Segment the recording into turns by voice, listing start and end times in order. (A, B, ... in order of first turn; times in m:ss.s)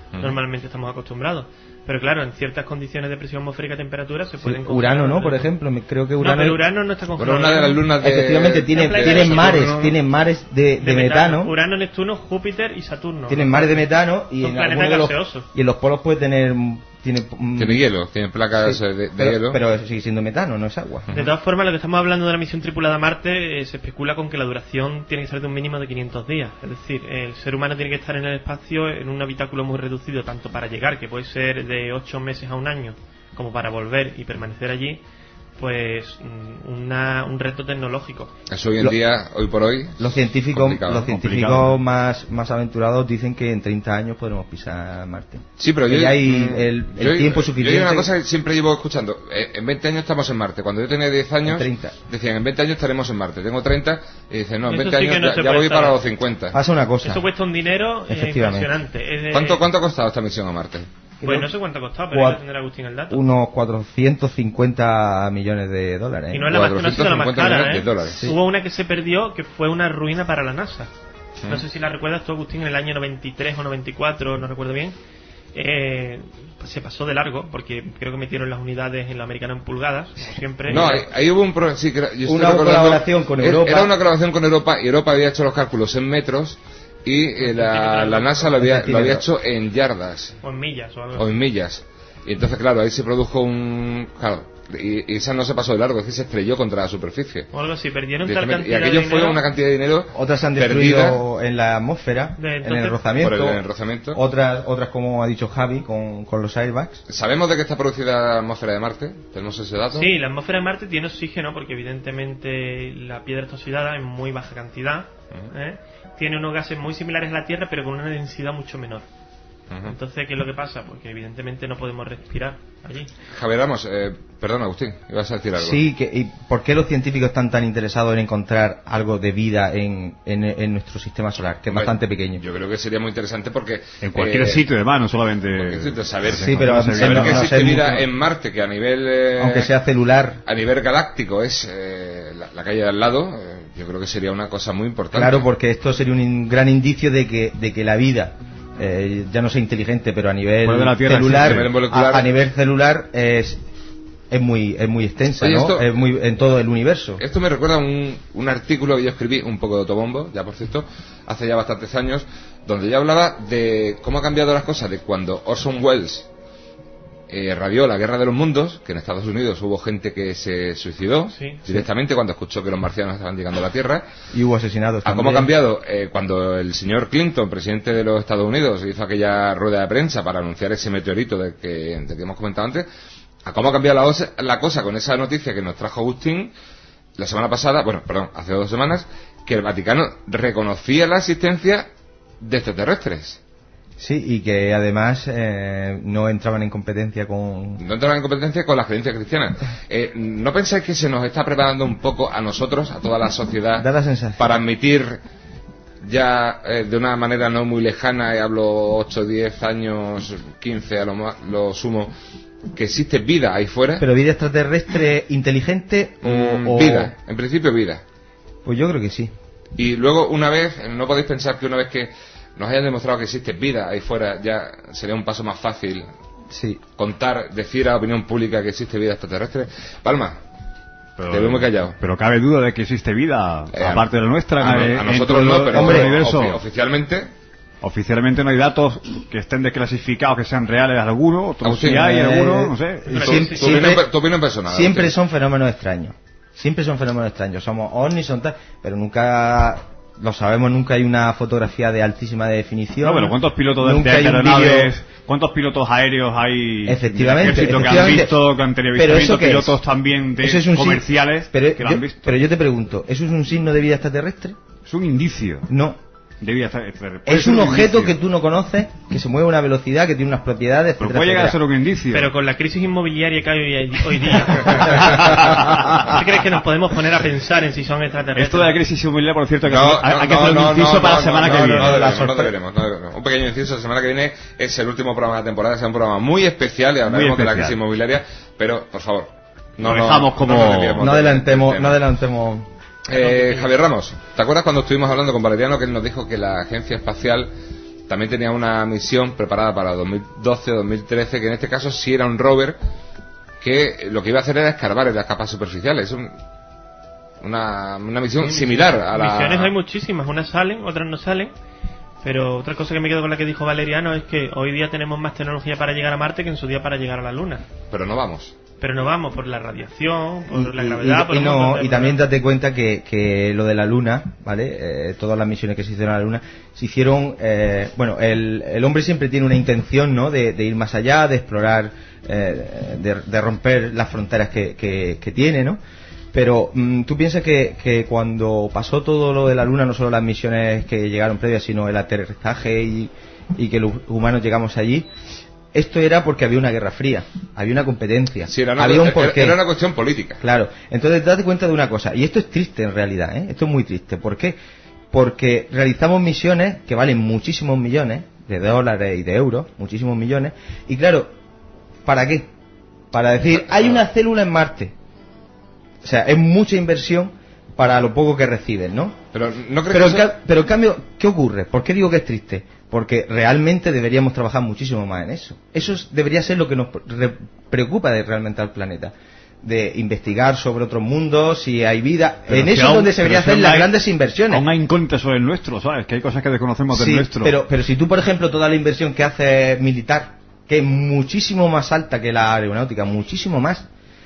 0:00.2-0:05.5 A
0:04.4-0:06.6 B
0:06.2-0:07.8 A
0:07.2-0:10.0 C
0:08.0-0:11.5 B
0:08.7-0:09.7 A
0:10.8-0:13.8 A
0:13.3-0:17.8 B
0:14.4-0:15.5 A
0:17.6-0:19.6 C
0:18.6-0:21.1 B
0:21.1-0:21.3 C
0:21.1-0:35.0 A
0:35.6-0:38.3 A
0:38.5-0:41.1 C
0:40.0-0:48.1 B
0:41.0-0:41.8 D
0:45.6-0:56.6 C
0:51.4-0:52.0 B
0:54.6-0:56.0 A
0:56.5-0:57.2 B
0:57.0-0:59.6 A
0:58.1-0:58.7 B
0:59.3-1:00.9 C
1:01.2-1:01.5 B
1:01.2-1:03.2 A
1:02.1-1:02.4 B
1:03.1-1:06.6 B
1:06.3-1:10.9 A
1:06.5-1:08.3 C
1:11.5-1:15.0 A
1:15.5-1:21.0 A
1:20.7-1:30.4 C
1:20.7-1:21.0 B
1:22.2-1:23.9 B
1:27.4-1:28.5 A
1:28.5-1:29.3 B
1:30.4-1:31.3 A
1:31.2-1:37.5 C
1:37.5-1:39.4 A
1:38.2-1:41.2 C
1:40.1-1:47.0 B
1:42.4-1:43.0 A
1:43.2-1:44.2 C
1:47.1-1:50.1 C
1:49.9-1:59.0 A
1:59.8-2:03.1 A
2:03.3-2:05.8 C
2:05.6-2:12.4 B
2:11.7-2:14.6 C
2:14.0-2:17.6 D
2:15.5-2:19.7 C
2:16.3-2:18.1 B
2:19.4-2:20.4 B
2:20.4-2:25.4 C
2:25.1-2:33.6 B
2:30.6-2:31.7 D
2:31.2-2:32.3 C
2:34.3-2:37.2 B
2:35.4-2:35.9 C
2:37.2-2:46.3 C
2:47.3-2:54.1 C
2:51.3-2:51.6 A
2:54.3-2:55.5 B
2:55.0-3:02.9 C
3:03.4-3:06.5 C
3:07.2-3:11.9 C
3:12.4-3:13.4 C
3:14.0-3:17.8 B
3:17.8-3:25.2 C
3:23.8-3:24.6 B
3:26.0-3:32.1 C
3:32.7-3:34.0 C
3:34.0-3:37.1 B
3:36.2-3:38.0 C
3:38.6-3:39.3 B
3:39.8-3:46.1 C
3:46.5-3:46.8 B
3:47.0-3:50.4 C
3:51.2-3:56.6 D
3:51.3-3:52.0 C
3:53.7-3:57.3 C
3:55.7-3:56.2 B
3:57.8-4:03.3 D
4:01.6-4:02.1 C
4:01.8-4:04.1 B
4:03.1-4:03.7 A
4:03.2-4:05.1 C
4:04.6-4:14.9 B
4:13.0-4:22.2 D
4:16.8-4:19.8 B
4:20.4-4:24.6 B
4:24.8-4:25.7 D
4:25.7-4:26.0 B
4:26.4-4:28.2 D
4:27.2-4:31.6 B
4:31.0-4:32.3 D
4:32.1-4:35.4 A
4:34.6-4:35.2 B
4:35.0-4:36.0 D
4:35.9-4:38.8 A
4:38.4-4:42.2 D
4:39.6-4:52.0 C
4:41.4-4:42.6 B
4:47.0-4:47.8 D
4:49.8-4:51.1 D
4:51.0-4:52.7 B
4:53.0-4:57.5 C
4:53.1-4:53.7 A
4:58.1-5:02.8 C
5:03.6-5:06.4 C
5:07.4-5:09.7 C
5:08.4-5:11.5 A
5:12.2-5:17.6 A
5:17.9-5:18.5 C
5:18.8-5:22.2 A
5:20.5-5:35.8 B
5:36.3-5:45.1 B
5:45.7-5:49.6 B
5:48.5-5:50.4 C
5:50.4-5:54.6 B
5:55.1-6:01.3 B
6:02.0-6:02.5 B
6:03.1-6:04.9 B
6:03.7-6:04.0 C
6:06.0-6:09.2 B
6:09.3-6:10.3 C
6:09.9-6:24.6 B
6:22.5-6:23.9 D
6:24.5-6:27.5 D
6:26.9-6:33.8 B